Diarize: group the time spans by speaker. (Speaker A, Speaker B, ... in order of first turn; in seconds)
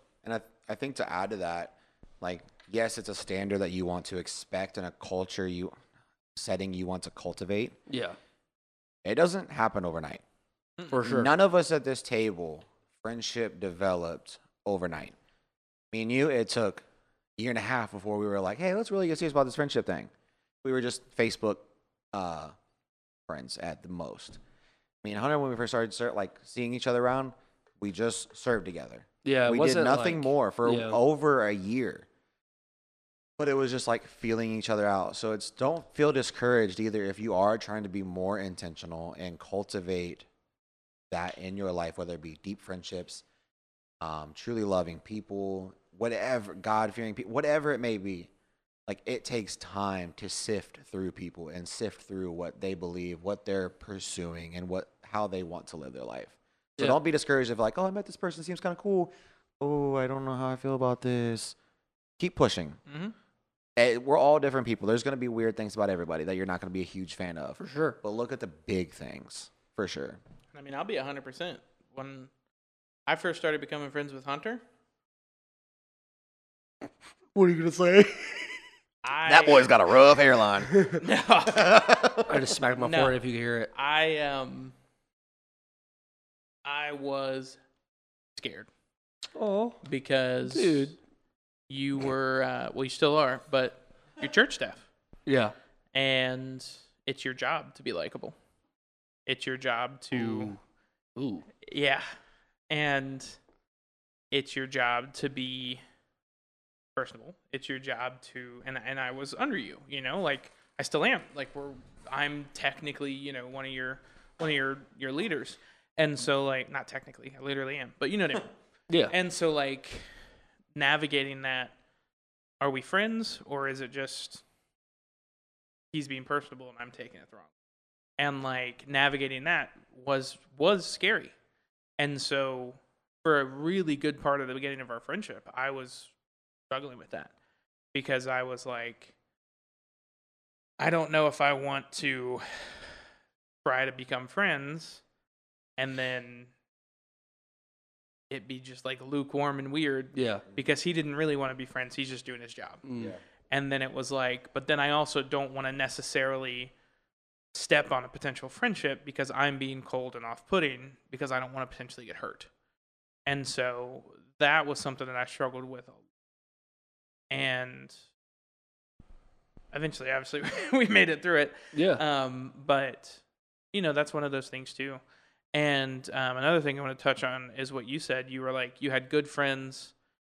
Speaker A: 0.2-5.7, 6.3-7.8, 9.0-10.2, 11.0-15.1, 15.9-16.8, 17.4-20.1, 20.6-22.5, 23.3-24.4, 25.0-32.1, 33.4-40.2, 41.1-43.2, 44.0-48.3, 48.9-61.5, 62.2-62.8, 63.8-70.2, 79.2-80.9, 81.5-82.3
Speaker B: 7.9-8.2, 10.9-11.3, 29.2-31.0, 67.6-68.0, 77.3-78.5, 82.3-83.7, 89.3-89.8, 90.5-90.9, 95.3-95.5, 100.1-100.6, 101.2-101.5, 118.9-119.1, 150.1-150.4, 152.8-153.1, 171.7-172.0
Speaker C: 62.9-63.1, 70.5-72.3, 73.1-74.6, 79.0-79.7, 81.0-82.2, 82.8-83.2, 83.7-84.7, 86.6-87.6, 88.3-88.7, 89.8-91.0, 91.7-94.8, 95.9-98.3, 99.2-100.5, 101.6-102.0, 102.7-103.4, 104.3-105.8, 107.0-118.5, 119.1-120.1, 120.7-121.7, 122.6-124.4, 125.9-127.5, 128.2-131.3, 132.0-136.1, 136.7-137.3, 137.9-139.1, 140.8-142.9, 143.6-145.0, 145.8-146.5, 148.3-152.8, 153.5-156.7, 157.5-162.5, 163.2-166.0, 167.3-167.9, 169.7-173.2, 173.7-175.0, 175.5-179.9